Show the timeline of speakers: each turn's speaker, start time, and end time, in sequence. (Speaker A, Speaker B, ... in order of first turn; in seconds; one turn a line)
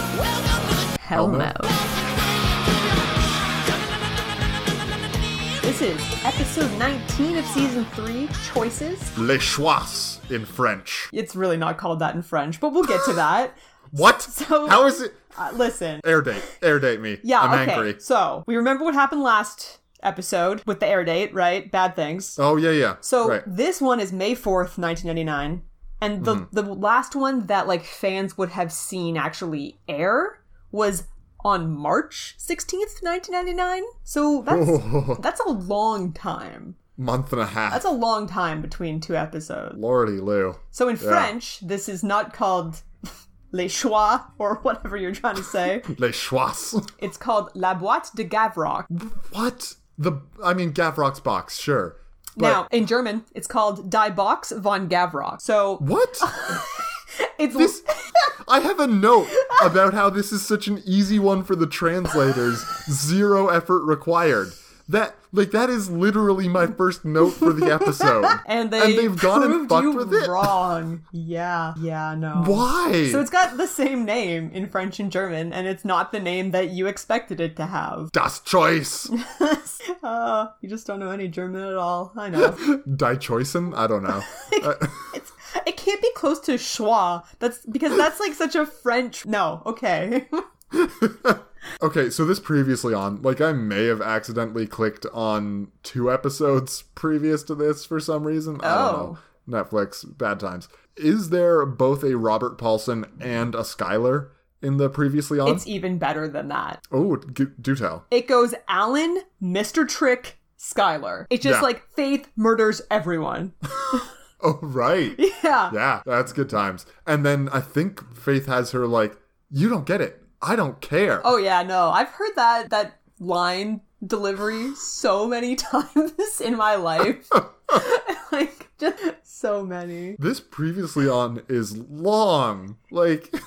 Speaker A: 0.1-1.0
Speaker B: 1.0-1.8
Speaker C: 1.1-1.5
Speaker A: 1.6-5.7
Speaker B: 5.6-9.1
Speaker C: 9.2-11.1
Speaker B: 11.1-16.1
Speaker C: 13.9-15.2
Speaker C: 16.0-18.0
Speaker B: 17.2-22.4
Speaker C: 22.4-23.5
Speaker B: 23.0-36.8
Speaker C: 26.2-26.5
Speaker C: 34.5-35.2
Speaker C: 37.0-37.9
Speaker B: 37.7-39.8
Speaker C: 39.8-41.3
Speaker B: 40.7-42.8
Speaker B: 43.5-45.9
Speaker C: 45.9-46.9
Speaker B: 47.0-48.9
Speaker C: 48.9-52.7
Speaker B: 52.4-57.8
Speaker C: 55.8-56.3
Speaker C: 57.5-70.6
Speaker B: 68.3-78.1
Speaker C: 72.3-73.3
Speaker C: 78.1-79.1
Speaker B: 79.1-82.6
Speaker C: 82.3-85.1
Speaker B: 84.3-90.4
Speaker C: 90.7-105.7
Speaker B: 98.6-99.2
Speaker B: 105.4-106.8
Speaker C: 106.9-108.0
Speaker B: 108.1-113.5
Speaker C: 111.4-111.7
Speaker C: 114.4-121.3
Speaker B: 115.2-115.8
Speaker B: 121.2-130.2
Speaker C: 130.2-133.3